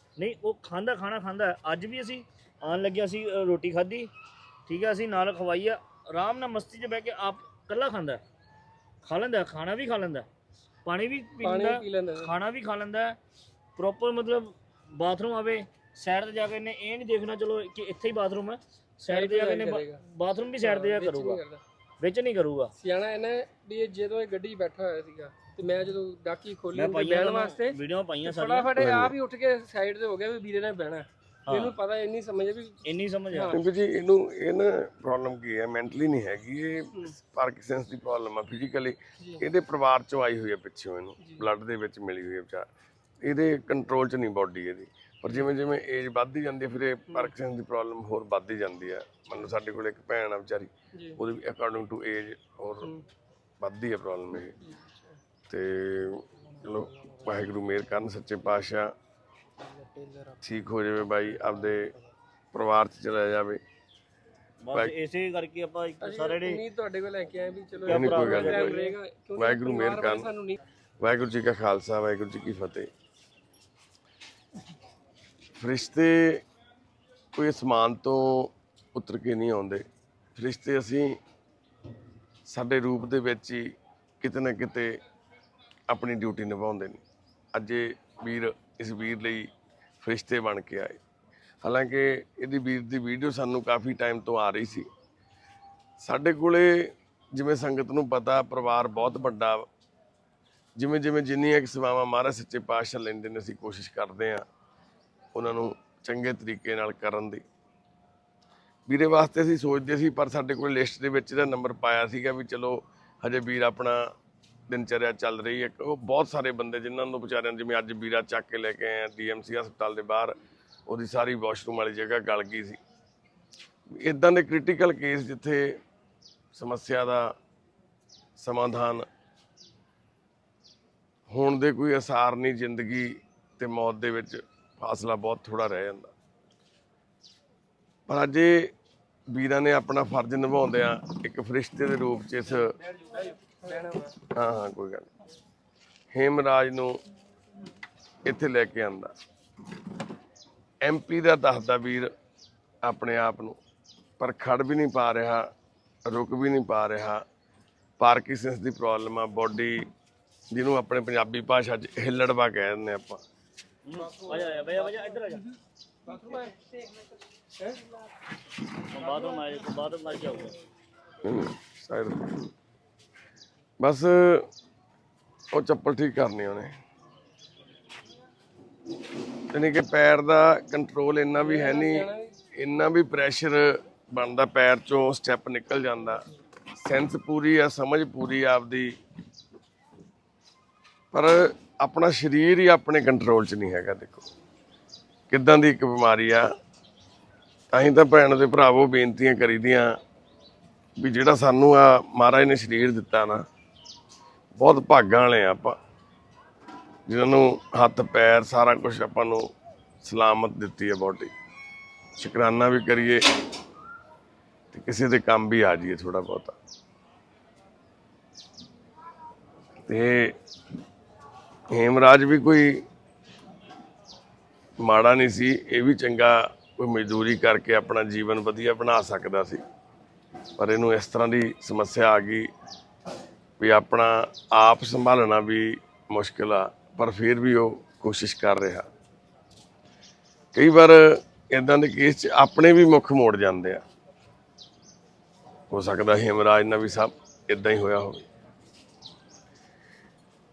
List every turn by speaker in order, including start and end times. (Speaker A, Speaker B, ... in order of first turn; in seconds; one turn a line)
Speaker A: 0.2-4.1
Speaker A: 4.7-8.2
Speaker A: 9.0-10.2
Speaker A: 10.8-13.1
Speaker B: 11.4-12.3
Speaker A: 13.8-21.4
Speaker B: 19.1-20.0
Speaker B: 20.6-21.6
Speaker A: 22.0-22.7
Speaker B: 22.8-32.8
Speaker A: 26.7-28.8
Speaker C: 28.8-29.1
Speaker A: 31.5-31.7
Speaker A: 32.8-33.6
Speaker B: 33.3-33.6
Speaker C: 33.5-42.7
Speaker C: 43.2-52.9
Speaker C: 53.6-54.5
Speaker C: 55.5-58.9
Speaker B: 59.8-60.4
Speaker C: 60.4-61.9
Speaker C: 62.5-63.6
Speaker A: 64.6-66.6
Speaker B: 66.0-70.6
Speaker A: 67.8-68.9
Speaker C: 67.8-68.8
Speaker C: 69.3-70.3
Speaker C: 71.0-72.9
Speaker C: 75.6-76.4
Speaker C: 77.3-79.8
Speaker C: 80.3-81.2
Speaker C: 82.5-85.0
Speaker C: 85.9-87.0
Speaker C: 87.5-89.5
Speaker C: 90.0-91.0
Speaker C: 91.6-94.9
Speaker C: 96.0-99.7
Speaker C: 100.8-104.5
Speaker C: 105.3-107.4
Speaker C: 108.9-114.1
Speaker C: 114.7-120.3
Speaker C: 120.9-122.8
Speaker C: 124.0-125.8
Speaker C: 126.5-127.3
Speaker C: 128.4-129.1
Speaker C: 131.3-136.1
Speaker C: 138.1-138.7
Speaker C: 139.3-142.7
Speaker B: 143.1-144.1
Speaker C: 144.3-145.1
Speaker C: 146.1-147.0
Speaker C: 148.2-149.1
Speaker C: 150.8-152.1
Speaker C: 152.8-153.6
Speaker C: 154.2-155.5
Speaker C: 156.0-157.2
Speaker C: 158.0-159.9
Speaker C: 160.5-163.2
Speaker A: 163.8-165.4
Speaker B: 166.1-166.5
Speaker A: 168.9-170.6
Speaker C: 171.2-172.5
Speaker C: 173.8-174.5
Speaker C: 175.5-176.8
Speaker C: 179.5-186.2
Speaker B: 181.4-182.3
Speaker C: 186.8-188.9
Speaker C: 191.1-194.3
Speaker C: 195.3-196.5
Speaker C: 197.7-200.0
Speaker C: 201.0-203.4
Speaker C: 204.6-205.8
Speaker C: 207.1-209.5
Speaker C: 210.0-211.3
Speaker C: 212.2-213.2
Speaker C: 214.7-216.6
Speaker C: 219.9-220.3
Speaker C: 221.7-222.8
Speaker C: 224.8-229.6
Speaker C: 230.6-232.5
Speaker C: 233.6-238.9
Speaker C: 240.5-243.8
Speaker C: 245.7-248.3